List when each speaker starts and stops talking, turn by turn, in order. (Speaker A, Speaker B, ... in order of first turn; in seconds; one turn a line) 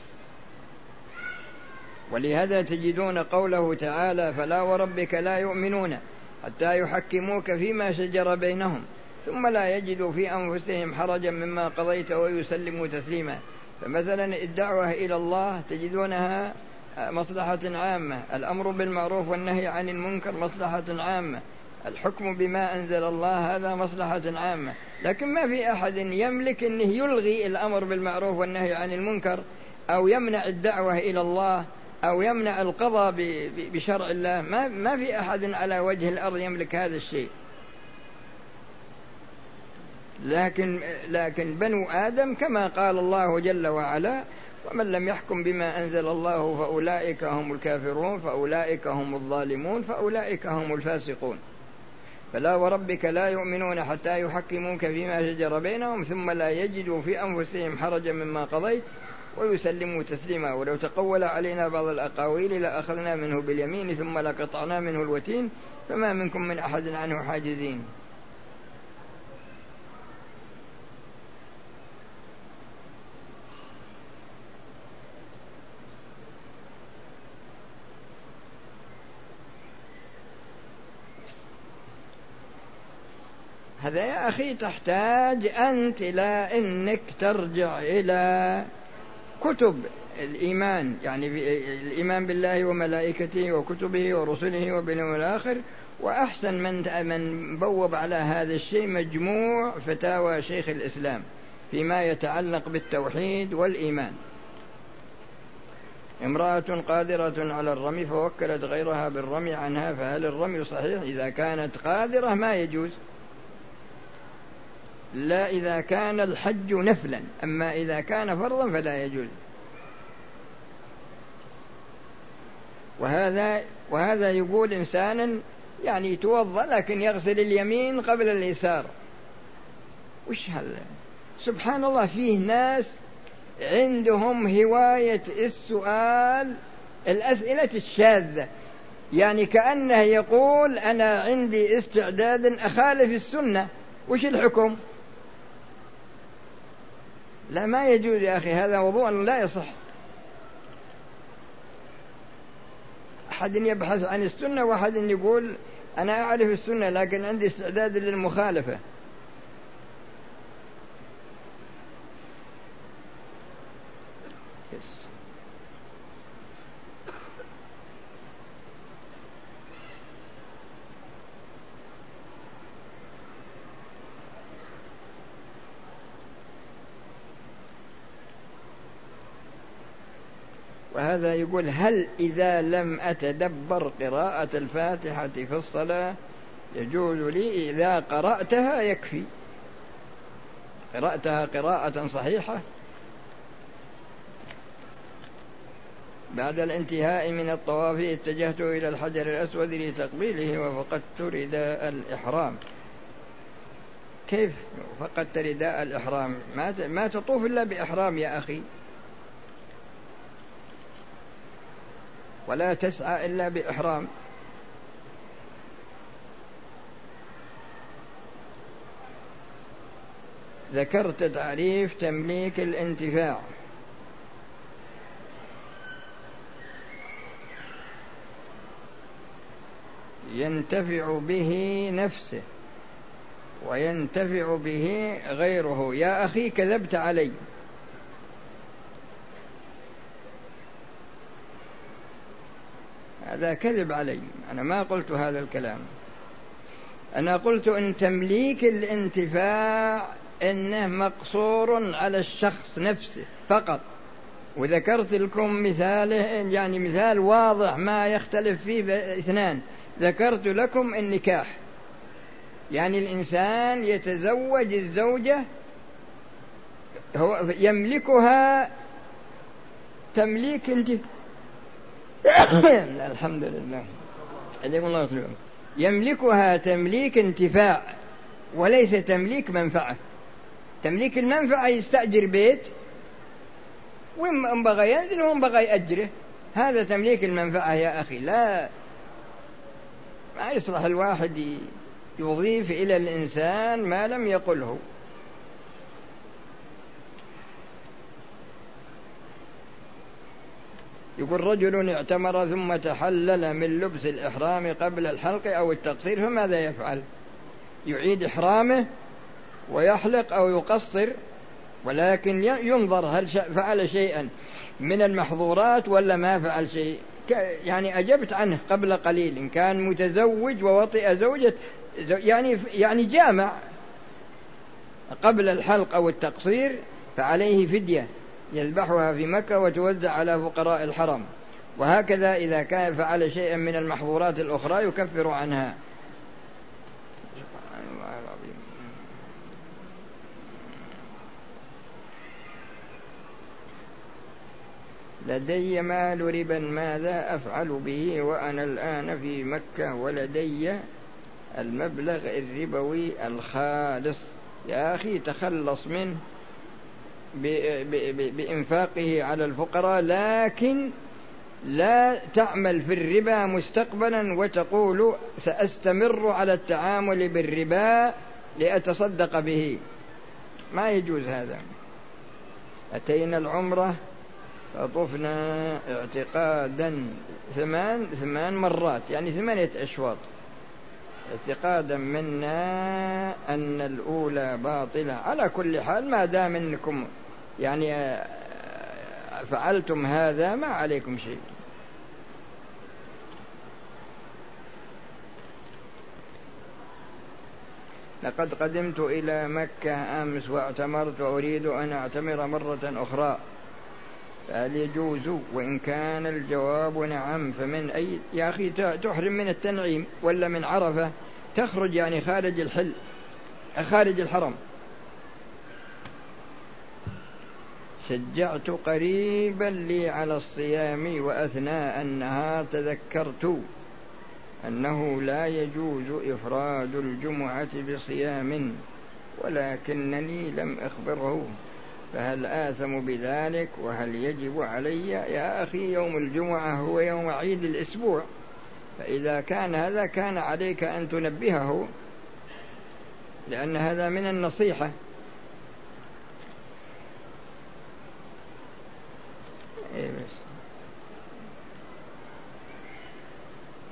Speaker A: 2.1-37.3
Speaker A: 40.2-51.4
Speaker A: 52.3-67.9
Speaker A: 83.8-88.7
Speaker A: 89.4-104.2
Speaker A: 106.2-113.0
Speaker A: 115.2-119.3
Speaker A: 123.0-128.9
Speaker A: 130.3-130.9
Speaker A: 131.4-132.9
Speaker A: 133.6-138.5
Speaker A: 139.2-144.8
Speaker A: 147.5-149.8
Speaker A: 153.3-158.8
Speaker A: 164.7-165.1
Speaker A: 180.9-186.2
Speaker A: 186.7-189.3
Speaker A: 190.9-192.6
Speaker A: 196.3-202.6
Speaker A: 204.3-208.7
Speaker A: 212.5-214.1
Speaker A: 220.7-223.5
Speaker A: 230.3-232.4
Speaker A: 233.6-237.4
Speaker A: 243.3-245.9
Speaker A: 247.2-253.8
Speaker A: 254.6-261.6
Speaker A: 262.7-265.4
Speaker A: 267.1-268.7
Speaker A: 270.1-271.0
Speaker A: 272.2-273.9
Speaker A: 274.6-278.0
Speaker A: 278.5-280.0
Speaker A: 280.8-282.7
Speaker A: 284.2-288.7
Speaker A: 290.4-294.8
Speaker A: 301.2-307.1
Speaker A: 307.9-308.9
Speaker A: 309.7-311.1
Speaker A: 311.8-323.6
Speaker A: 325.1-335.8
Speaker A: 337.4-338.7
Speaker A: 345.2-350.8
Speaker A: 351.6-356.2
Speaker A: 357.4-360.9
Speaker A: 361.7-369.8
Speaker A: 370.7-371.6
Speaker A: 372.9-374.0
Speaker A: 374.7-380.3
Speaker A: 381.3-387.1
Speaker A: 387.6-391.4
Speaker A: 398.2-403.4
Speaker A: 404.5-413.0
Speaker A: 413.8-414.6
Speaker A: 418.0-423.6
Speaker A: 424.6-428.8
Speaker A: 429.4-431.6
Speaker A: 432.1-438.3
Speaker A: 439.0-441.9
Speaker A: 443.5-444.9
Speaker A: 449.9-450.4